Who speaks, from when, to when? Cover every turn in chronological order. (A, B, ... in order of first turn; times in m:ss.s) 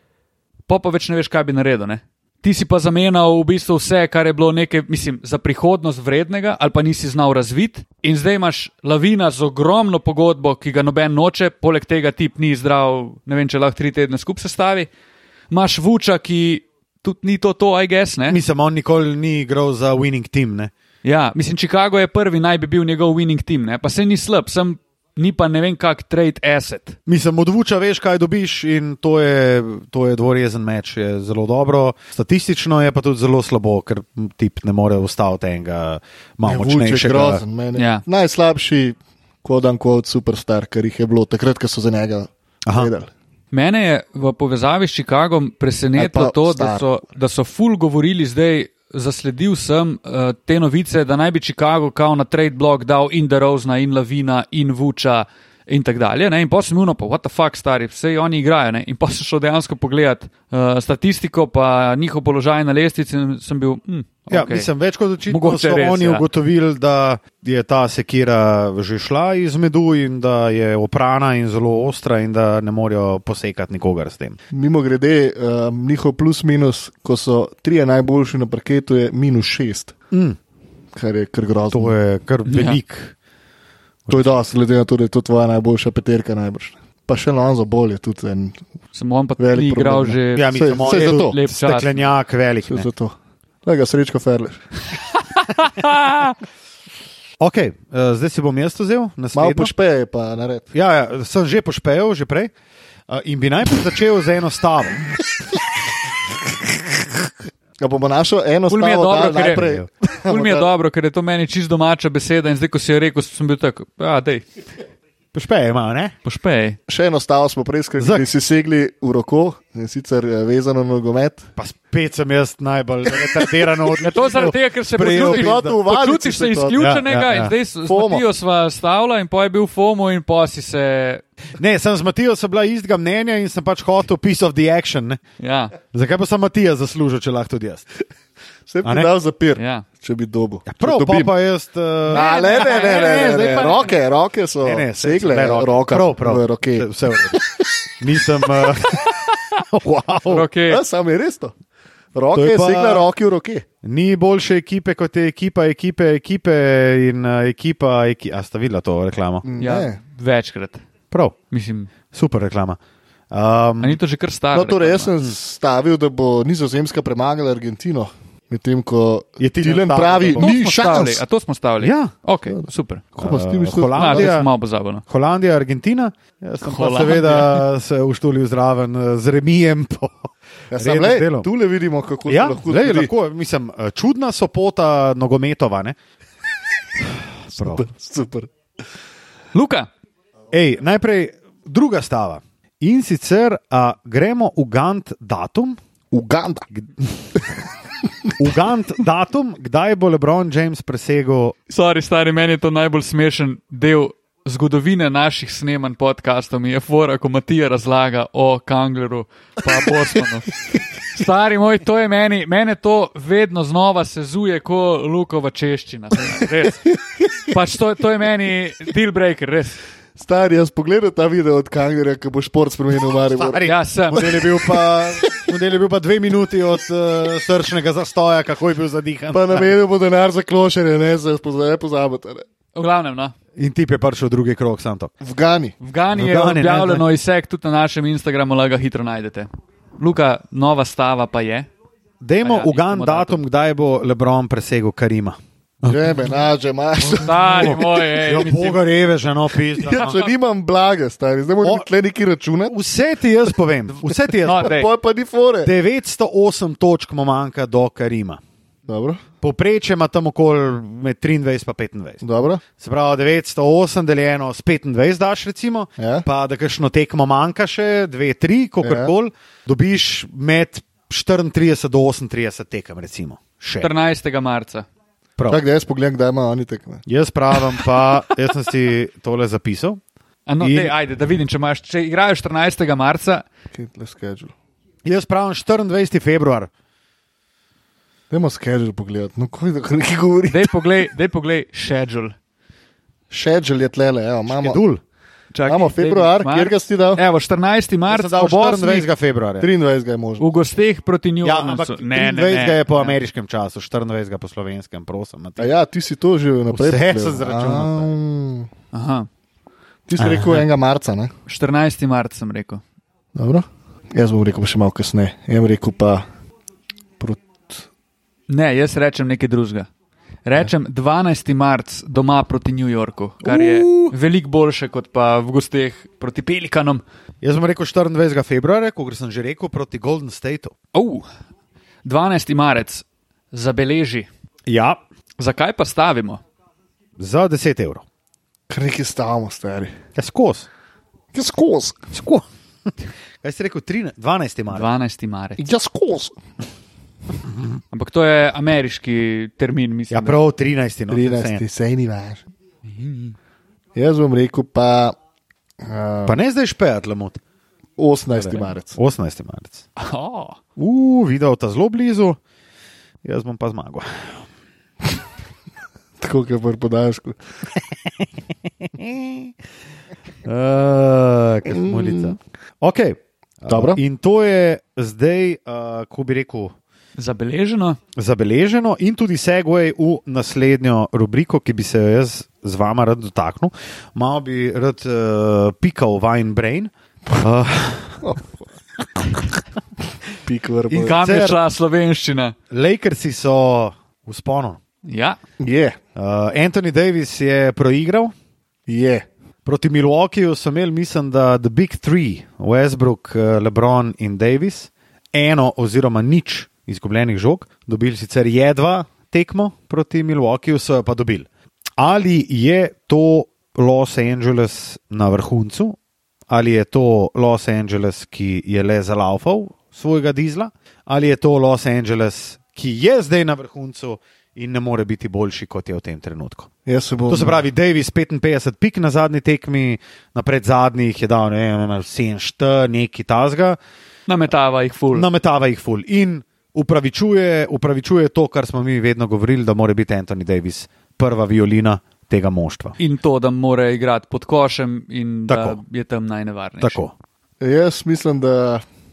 0:00.7-0:14.9 A
0:15.5-0:18.4 A
0:18.3-0:20.7 B
0:21.0-0:27.0 A
0:27.0-0:37.4 B
0:36.4-0:43.1 C
0:37.8-0:38.0 A
0:42.6-0:42.9 B
0:43.5-1:04.7 A
0:46.0-0:46.8 C
1:04.3-1:14.4 B
1:05.3-1:06.2 A
1:14.5-1:19.9 C
1:20.1-1:20.4 B
1:20.9-1:21.9 C
1:21.7-1:23.1 B
1:22.4-1:22.8 A
1:24.0-1:24.4 B
1:24.1-1:28.6 C
1:28.9-1:32.0 A
1:29.4-1:31.4 C
1:30.3-1:32.9 B
1:32.7-1:34.7 C
1:35.3-1:36.4 A
1:37.4-1:39.7 B
1:39.3-1:40.7 C
1:40.7-1:42.5 B
1:43.1-1:45.0 B
1:47.8-1:50.7 C
1:48.7-1:49.6 A
1:49.5-1:49.9 B
1:50.2-1:54.4 A
1:55.3-1:56.1 B
1:56.2-1:56.8 A
1:56.9-2:01.5 C
1:58.0-1:58.2 B
2:01.6-2:05.8 B
2:04.0-2:11.2 A
2:05.0-2:06.8 C
2:06.8-2:07.5 B
2:07.9-2:08.2 C
2:11.5-2:15.2 B
2:15.4-2:15.7 A
2:15.9-2:17.8 B
2:18.7-2:21.3 C
2:18.8-2:19.1 B
2:19.6-2:19.8 A
2:20.6-2:23.7 B
2:22.1-2:27.4 C
2:22.1-2:23.9 A
2:24.6-2:27.4 B
2:28.0-2:30.5 B
2:28.5-2:28.8 C
2:29.1-2:29.6 A
2:30.2-2:30.8 A
2:30.7-2:31.5 C
2:32.1-2:33.6 C
2:32.3-2:33.0 B
2:33.8-2:39.4 B
2:39.4-2:40.0 C
2:39.6-2:40.8 A
2:41.5-2:41.9 A
2:42.1-2:42.8 B
2:43.3-2:44.0 B
2:43.8-2:45.1 A
2:44.5-2:51.2 C
2:49.4-2:50.5 B
2:50.4-2:53.0 A
2:51.8-2:52.1 B
2:53.1-2:54.3 C
2:53.2-2:54.5 B
2:53.9-2:55.0 A
2:55.1-3:01.5 B
2:56.6-2:57.6 A
3:00.7-3:03.1 C
3:02.3-3:06.0 B
3:07.5-3:08.5 C
3:07.6-3:07.8 B
3:09.5-3:09.9 A
3:10.5-3:15.8 B
3:16.1-3:16.7 C
3:18.4-3:21.5 B
3:21.7-3:30.5 A
3:31.1-3:36.9 A
3:37.5-3:39.8 A
3:40.2-3:45.3 C
3:43.3-3:49.7 B
3:43.6-3:44.3 A
3:49.3-3:52.4 C
3:52.7-3:53.3 A
3:53.6-3:55.1 B
3:55.2-3:55.8 C
3:55.8-3:59.5 A
3:56.1-3:57.0 B
4:00.0-4:01.7 A
4:02.2-4:06.2 B
4:02.4-4:03.4 A
4:05.8-4:08.2 C
4:07.0-4:08.8 A
4:07.2-4:10.2 B
4:09.8-4:12.7 C
4:12.7-4:14.8 B
4:14.4-4:14.9 A
4:14.5-4:15.7 C
4:15.6-4:18.4 B
4:18.9-4:19.2 C
4:19.4-4:22.2 B
4:22.2-4:22.6 C
4:22.8-4:33.9 B
4:26.0-4:26.2 C
4:28.8-4:29.1 C
4:33.8-4:34.8 A
4:35.5-4:37.0 C
4:37.0-4:40.0 B
4:40.5-4:43.4 A
4:40.6-4:40.9 B
4:43.7-4:44.5 C
4:45.0-4:46.7 B
4:48.3-4:50.8 C
4:50.5-4:52.3 A
4:53.3-4:54.8 C
4:54.5-4:55.0 B
4:55.5-4:59.1 A
4:55.7-4:57.2 C
4:58.1-4:59.7 B
4:59.6-5:00.5 C
5:00.4-5:03.2 A
5:01.4-5:05.7 B
5:05.6-5:08.7 C
5:06.7-5:08.1 B
5:08.9-5:09.3 A
5:10.1-5:11.3 C
5:10.2-5:10.6 B
5:11.5-5:12.8 A
5:13.3-5:16.2 C
5:17.2-5:17.8 C
5:18.5-5:19.9 A
5:20.4-5:27.0 A
5:23.4-5:24.1 B
5:27.4-5:30.7 B
5:30.9-5:31.2 A
5:32.0-5:34.3 A
5:34.7-5:35.0 B
5:35.4-5:36.4 A
5:37.2-5:38.0 B
5:38.7-5:39.9 C
5:40.2-5:40.7 B
5:41.3-5:42.0 C
5:42.1-5:44.9 B
5:44.7-5:45.6 A
5:45.6-5:46.4 C
5:47.9-5:50.4 A
5:50.1-5:51.6 B
5:51.1-5:52.4 C
5:52.9-5:53.3 A
5:53.9-5:55.1 C
5:55.8-5:56.4 C
5:56.2-5:57.4 B
5:58.0-5:59.0 C
5:58.4-5:59.8 B
6:00.0-6:00.6 A
6:00.8-6:02.4 B
6:03.2-6:04.4 B
6:06.2-6:07.4 C
6:08.8-6:09.5 B
6:10.4-6:16.7 B
6:11.7-6:12.3 C
6:13.7-6:14.0 C
6:17.2-6:18.0 A
6:18.2-6:28.2 B
6:28.2-6:28.6 C
6:30.3-6:31.2 C
6:30.9-6:32.5 A
6:31.1-6:31.6 B
6:32.7-6:34.8 B
6:35.0-6:35.4 A
6:35.6-6:36.0 C
6:36.2-6:38.3 B
6:38.9-6:39.2 C
6:39.6-7:06.7 B
7:06.8-7:07.6 C
7:07.3-7:13.8 B
7:14.3-7:15.3 A
7:15.1-7:23.0 B
7:23.0-7:27.0 A
7:25.5-7:25.8 B
7:26.8-7:27.1 B
7:27.6-7:28.8 C